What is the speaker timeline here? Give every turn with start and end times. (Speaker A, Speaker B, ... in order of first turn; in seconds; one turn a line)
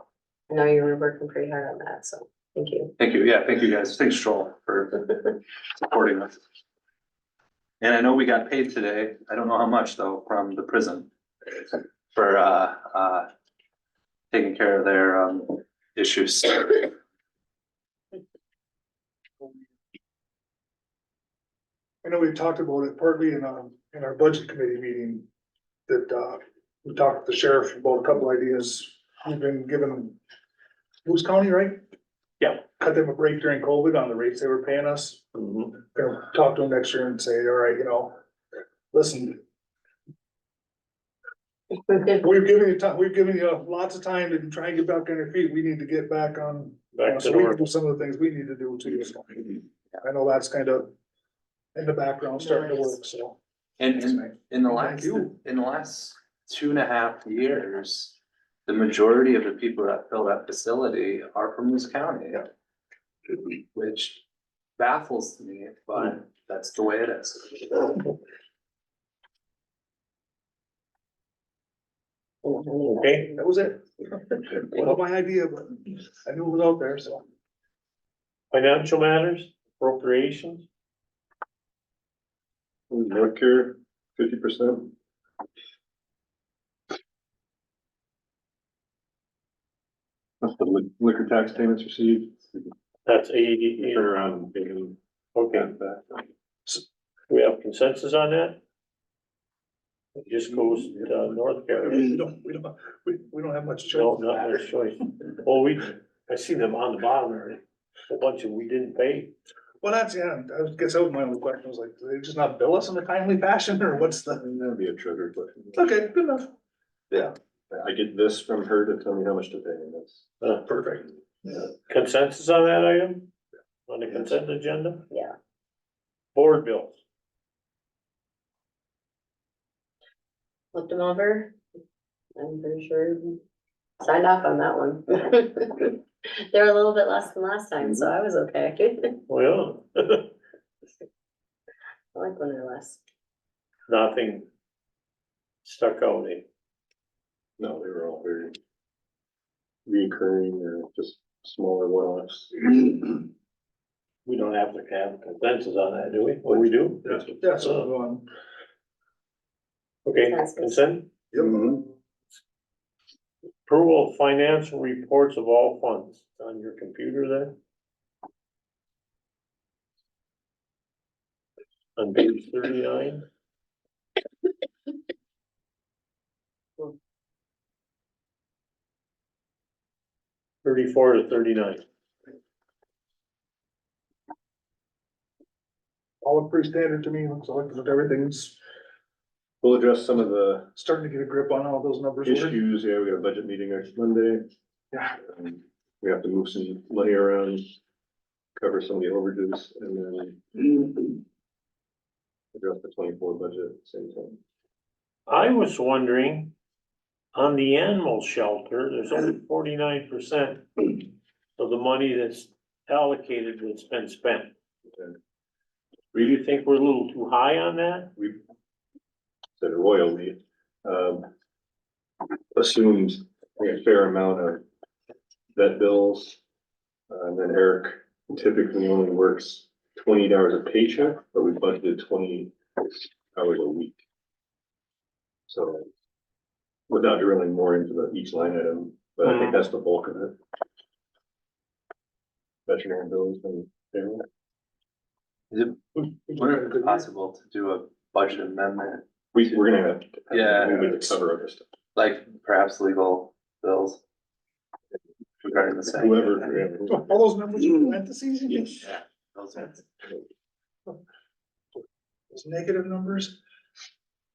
Speaker A: 0.5-2.9
Speaker B: 3.0-6.4
Speaker B: 7.8-11.6
Speaker B: 12.1-13.3
Speaker B: 14.3-16.9
Speaker C: 22.0-25.2
Speaker C: 25.9-30.2
Speaker C: 31.0-31.8
Speaker C: 32.5-35.2
Speaker D: 35.4-35.8
Speaker C: 35.7-38.1
Speaker C: 38.9-39.4
Speaker C: 41.9-50.9
Speaker D: 46.9-47.7
Speaker C: 51.7-53.4
Speaker A: 52.4-52.9
Speaker B: 53.8-62.5
Speaker C: 53.9-55.4
Speaker B: 63.7-64.2
Speaker B: 64.8-68.0
Speaker A: 72.4-73.5
Speaker D: 72.8-73.3
Speaker C: 73.4-77.2
Speaker D: 78.5-80.7
Speaker E: 82.9-84.9
Speaker E: 90.4-92.7
Speaker D: 93.0-94.0
Speaker E: 93.8-95.0
Speaker D: 95.3-95.7
Speaker E: 95.5-96.2
Speaker D: 97.3-98.6
Speaker D: 100.2-102.2
Speaker C: 101.9-104.7
Speaker D: 103.9-109.3
Speaker C: 109.8-114.4
Speaker E: 114.4-115.8
Speaker C: 115.7-116.5
Speaker E: 117.7-120.3
Speaker D: 120.4-120.7
Speaker C: 120.7-121.0
Speaker D: 121.5-123.3
Speaker D: 123.9-125.0
Speaker A: 125.1-125.3
Speaker D: 126.3-127.0
Speaker A: 130.7-131.6
Speaker A: 132.4-133.4
Speaker A: 134.0-139.2
Speaker D: 139.3-140.3
Speaker A: 142.1-143.0
Speaker D: 143.9-144.5
Speaker D: 145.6-146.4
Speaker E: 147.6-148.6
Speaker E: 149.8-153.2
Speaker D: 154.2-157.9
Speaker C: 157.1-158.2
Speaker D: 160.0-161.1
Speaker A: 160.2-160.9
Speaker C: 161.3-161.6
Speaker D: 163.7-167.6
Speaker D: 172.0-173.2
Speaker D: 180.6-181.8
Speaker C: 186.2-188.6
Speaker E: 189.6-190.7
Speaker C: 190.8-192.6
Speaker E: 192.2-194.5
Speaker E: 195.2-197.7
Speaker E: 198.6-201.2
Speaker E: 202.5-204.4
Speaker D: 205.3-206.5
Speaker D: 207.3-211.0
Speaker D: 211.6-214.5
Speaker D: 216.1-218.1
Speaker E: 219.6-221.3
Speaker E: 222.5-224.6
Speaker E: 225.5-226.4
Speaker E: 227.1-234.0
Speaker E: 235.5-235.9
Speaker E: 236.9-240.3
Speaker D: 239.2-239.6
Speaker E: 242.7-244.2
Speaker B: 245.5-249.0
Speaker C: 246.0-247.0
Speaker E: 249.3-251.7
Speaker B: 250.3-251.2
Speaker B: 251.9-254.0
Speaker B: 255.4-256.5
Speaker E: 255.9-257.1
Speaker C: 256.9-258.8
Speaker B: 258.8-259.9
Speaker C: 262.3-263.4